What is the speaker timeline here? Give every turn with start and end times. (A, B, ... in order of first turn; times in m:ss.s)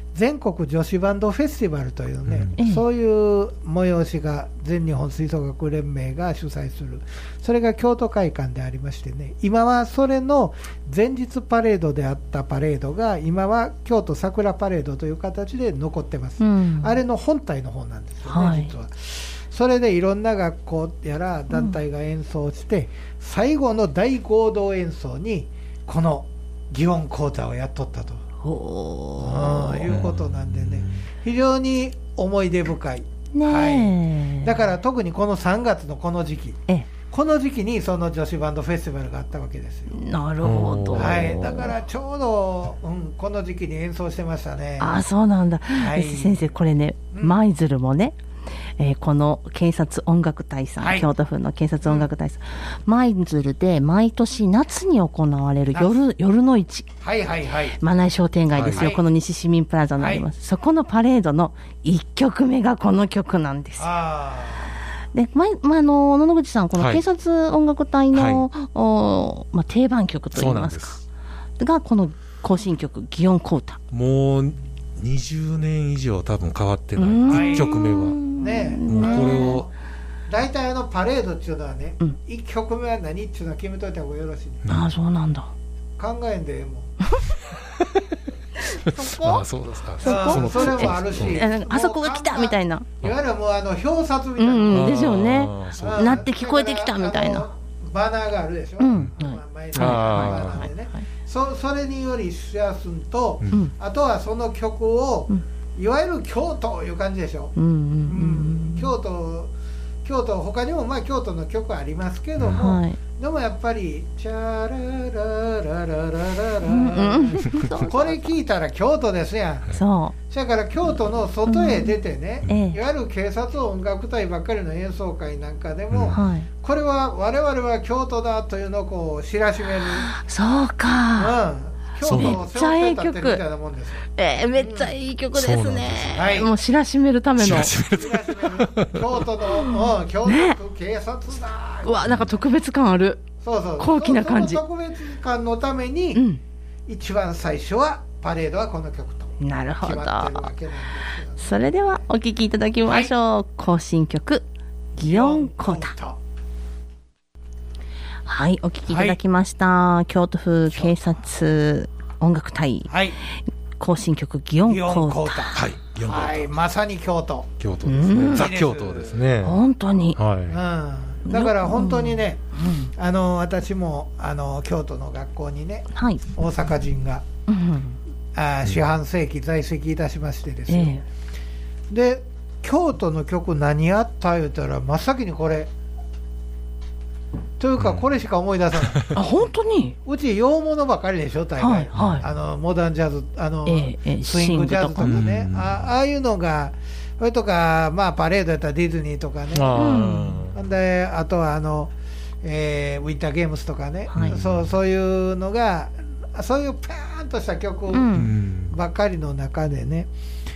0:00.1-0:28.2 A
0:02.2-0:02.5 B
0:02.6-0:02.8 C
0:16.4-0:17.0 C
0:18.3-0:18.7 C
0:21.5-0:21.8 C
0:28.4-0:30.0 C
0:29.2-0:40.0 A
0:29.8-0:31.0 B
0:33.3-0:34.7 C
0:39.9-0:41.7 C
0:40.4-0:41.4 B
0:40.9-0:45.0 A
0:44.8-0:48.2 C
0:45.8-0:46.5 A
0:48.8-0:56.9 C
0:50.8-0:51.1 A
0:51.8-0:52.1 A
0:57.0-0:57.8 A
0:57.8-1:03.9 C
0:58.5-0:58.9 B
0:58.7-0:59.0 A
1:00.0-1:00.2 A
1:03.8-1:04.7 A
1:05.1-1:11.0 C
1:06.8-1:07.0 B
1:08.1-1:08.4 B
1:10.3-1:11.0 B
1:11.6-1:13.8 C
1:13.9-1:18.2 B
1:17.0-1:19.6 C
1:17.3-1:17.8 A
1:18.4-1:19.7 A
1:18.9-1:19.7 B
1:20.3-1:24.6 A
1:24.6-1:24.9 B
1:24.7-1:25.5 C
1:26.0-1:26.9 A
1:27.7-1:28.1 B
1:28.8-1:31.4 B
1:28.9-1:29.4 A
1:30.0-1:32.9 C
1:30.0-1:35.0 A
1:34.4-1:37.5 C
1:34.7-1:36.2 B
1:35.8-1:47.5 A
1:38.8-1:41.0 C
1:39.7-1:40.7 B
1:47.6-1:48.9 C
1:48.1-1:49.5 A
1:50.0-1:59.7 A
1:52.5-1:53.0 C
1:56.6-1:58.2 C
1:59.7-2:00.1 C
2:00.3-2:10.1 A
2:01.4-2:02.8 C
2:05.9-2:06.2 B
2:06.1-2:06.5 C
2:10.0-2:11.3 C
2:11.2-2:14.9 A
2:12.0-2:12.4 B
2:12.1-2:13.4 C
2:14.2-2:17.7 C
2:15.3-2:16.4 B
2:16.1-2:16.5 A
2:17.4-2:19.1 B
2:17.8-2:22.2 A
2:19.5-2:20.6 C
2:21.8-2:23.2 C
2:23.4-2:26.2 A
2:23.8-2:24.6 C
2:26.1-2:26.4 C
2:26.9-2:31.6 A
2:29.4-2:30.5 C
2:31.4-2:34.4 C
2:32.8-2:33.1 A
2:35.0-2:35.9 C
2:35.0-2:36.2 A
2:38.2-2:45.7 C
2:38.9-2:39.2 A
2:42.9-2:43.2 A
2:44.6-2:47.5 A
2:45.5-2:46.5 B
2:47.6-2:49.6 B
2:47.8-2:48.5 C
2:48.3-2:49.2 A
2:49.4-2:50.2 C
2:50.2-2:50.6 B
2:50.5-2:52.4 A
2:51.3-2:52.9 C
2:52.9-2:57.2 A
2:55.9-2:56.2 C
2:57.5-2:58.0 C
2:58.3-3:01.0 A
3:00.7-3:01.0 C
3:01.9-3:05.7 A
3:07.6-3:09.2 A
3:07.8-3:08.0 B
3:08.8-3:09.2 B
3:09.1-3:09.9 C
3:10.0-3:19.7 A
3:11.6-3:12.2 C
3:12.0-3:12.2 B
3:13.6-3:15.2 C
3:15.0-3:15.8 B
3:19.5-3:20.6 B
3:19.7-3:20.4 C
3:20.5-3:30.1 A
3:24.1-3:24.4 C
3:24.2-3:24.7 B
3:27.9-3:28.3 C
3:28.1-3:28.7 B